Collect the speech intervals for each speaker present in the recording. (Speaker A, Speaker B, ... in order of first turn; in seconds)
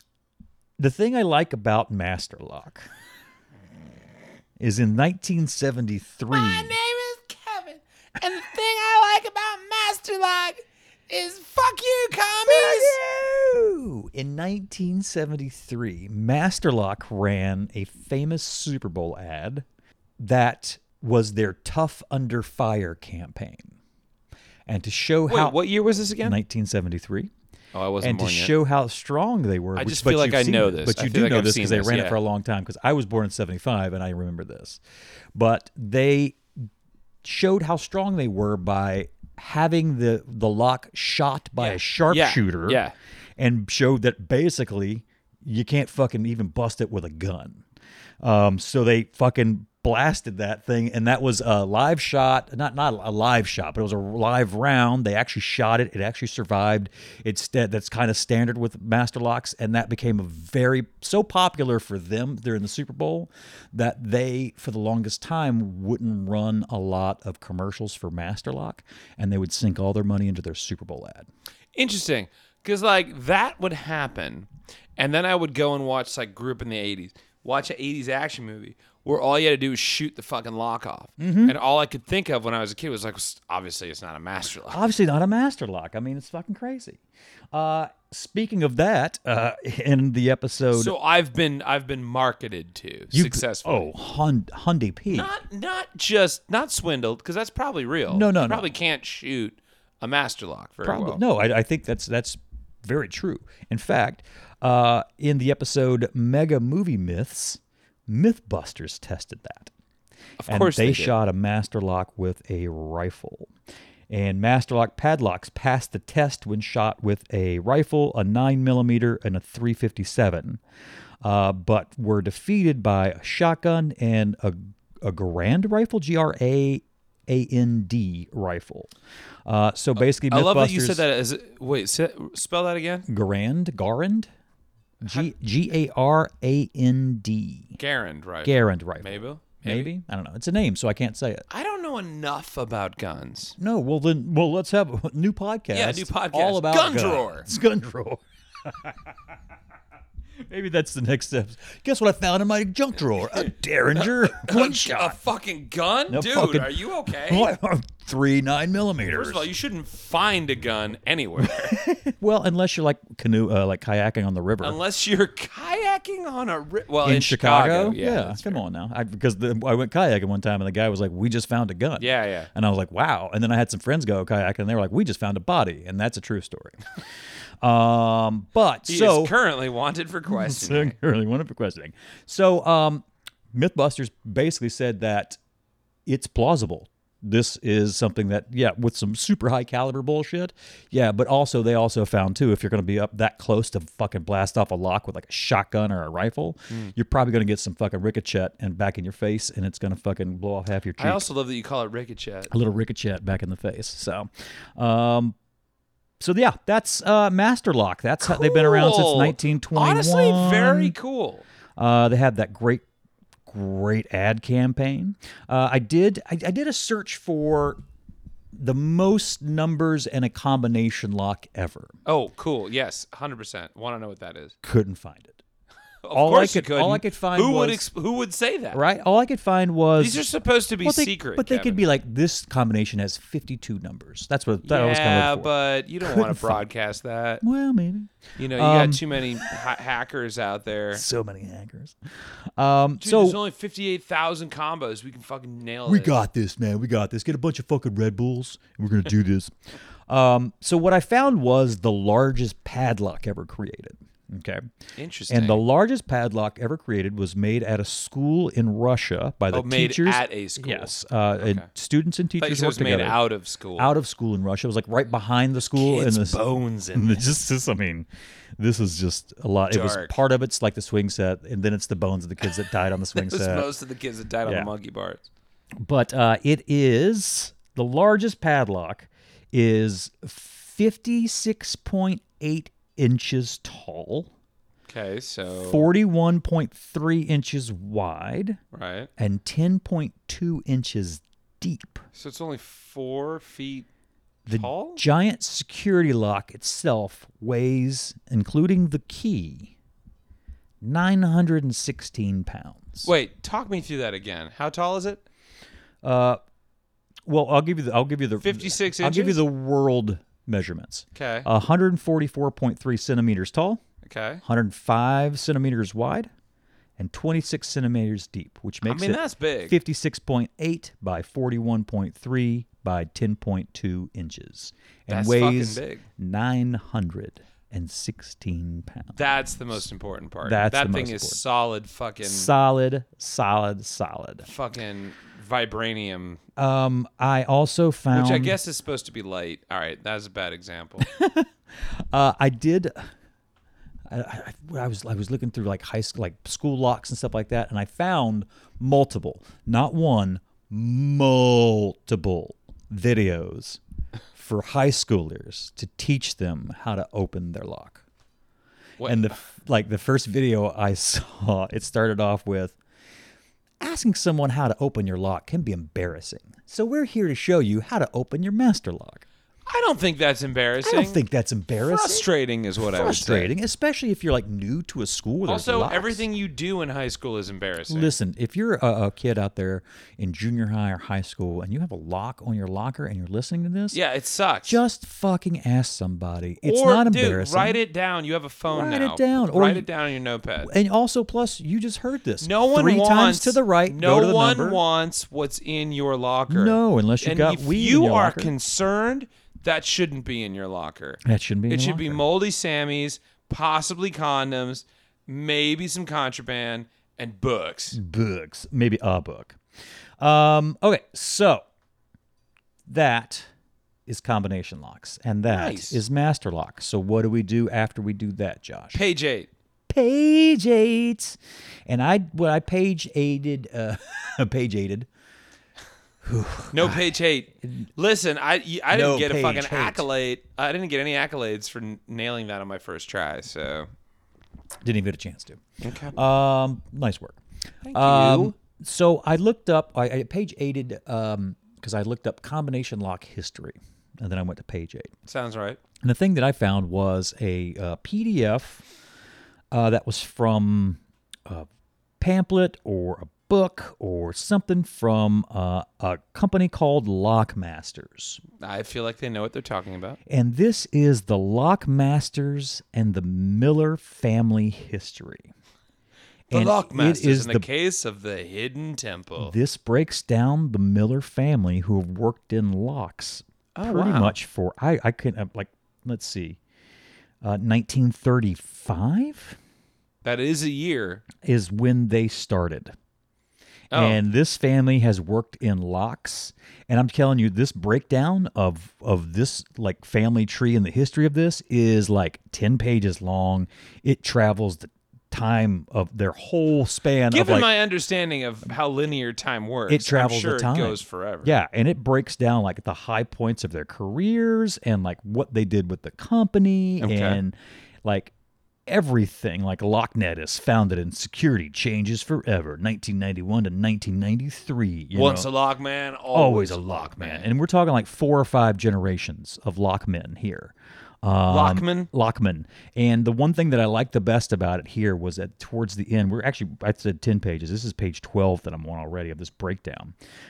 Speaker A: 0.8-2.9, 4.6-6.7, 12.5-19.7, 20.2-23.8, 24.7-25.6, 26.2-27.3, 28.0-34.8, 35.4-36.7, 37.2-42.8, 43.4-47.6, 48.2-71.3, 81.2-81.6, 84.7-87.0, 87.5-90.9, 93.1-95.3, 98.1-98.7, 100.8-109.7, 110.5-113.5, 114.1-120.6, 121.2-128.9, 129.5-131.1, 133.1-134.3, 135.0-137.8, 138.4-141.5, 143.6-148.9, 150.5-155.2, 156.1-159.5, 161.4-164.8, 167.0-176.8, 177.6-179.3, 180.3-185.4, 186.1-201.2, 202.5-205.3, 206.2-211.0, 211.8-212.8, 213.5-217.8, 218.5-221.9, 224.6-225.4, 226.1-227.9, 228.7-230.3, 230.8-235.5, 236.0-236.7, 237.4-239.1, 240.9-242.0, 242.6-243.4, 245.9-249.5, 250.1-254.6, 255.3-263.2, 263.8-266.4, 266.9-268.1, 268.6-273.7, 274.4-274.7, 275.8-284.3, 285.6-288.6, 289.2-292.0, 294.5-299.7, 300.8-303.1, 306.0-306.4, 307.3-313.8, 314.4-316.3, 317.0-329.3, 330.4-331.4, 332.2-334.5, 336.6-338.6, 341.0-343.1, 344.1-353.8, 354.4-358.0, 359.0-362.8, 363.8-369.2, 370.8-372.3, 372.8-376.3, 377.9-384.0, 384.6-387.8, 388.7-389.9, 390.6-394.8, 396.5-398.5, 401.2-402.2, 407.9-409.6, 410.2-411.6, 412.9-413.5, 414.1-419.0, 419.9-425.1, 426.2-427.1, 427.6-427.9, 428.9-430.1, 434.8-435.6, 436.1-437.4, 437.9-445.1, 446.0-448.8, 449.7-451.7, 452.2-458.4, 460.3-465.5, 466.5-467.7, 469.4-476.6, 477.4-479.6, 481.4-482.9, 483.9-497.7, 499.9-508.3, 508.9-515.5, 516.3-530.1
Speaker B: 6.3-13.0, 25.3-26.4, 27.7-28.5, 29.8-32.2, 41.6-43.0, 71.7-84.8, 90.7-93.9, 95.1-101.2, 110.4-111.2, 130.0-133.1, 137.8-139.9, 141.5-143.6, 145.7-147.5, 154.0-157.5, 159.0-161.8, 164.6-168.6, 172.0-172.5, 178.9-180.9, 201.0-202.5, 208.2-211.4, 222.1-224.6, 226.0-228.8, 230.0-231.8, 234.6-237.4, 238.4-241.0, 243.0-246.2, 255.0-255.6, 259.5-261.7, 262.4-263.9, 265.7-267.3, 269.7-270.2, 273.1-275.3, 284.9-285.9, 288.7-289.1, 292.1-293.9, 294.5-295.0, 303.0-305.2, 308.4-309.4, 311.1-311.5, 314.0-314.4, 318.8-319.8, 325.1-326.1, 329.1-332.5, 334.4-336.4, 338.1-341.1, 359.0-359.3, 369.7-371.2, 371.8-373.5, 375.5-378.1, 383.9-384.8, 386.6-390.7, 392.4-408.0, 415.5-416.0, 418.9-419.5, 426.7-433.9, 435.8-436.2, 437.9-438.5, 445.3-445.8, 458.6-460.2, 466.5-469.5, 473.8-474.4, 480.2-481.2, 483.9-484.2, 497.3-501.6, 507.0-507.4, 515.1-517.5, 521.5-522.1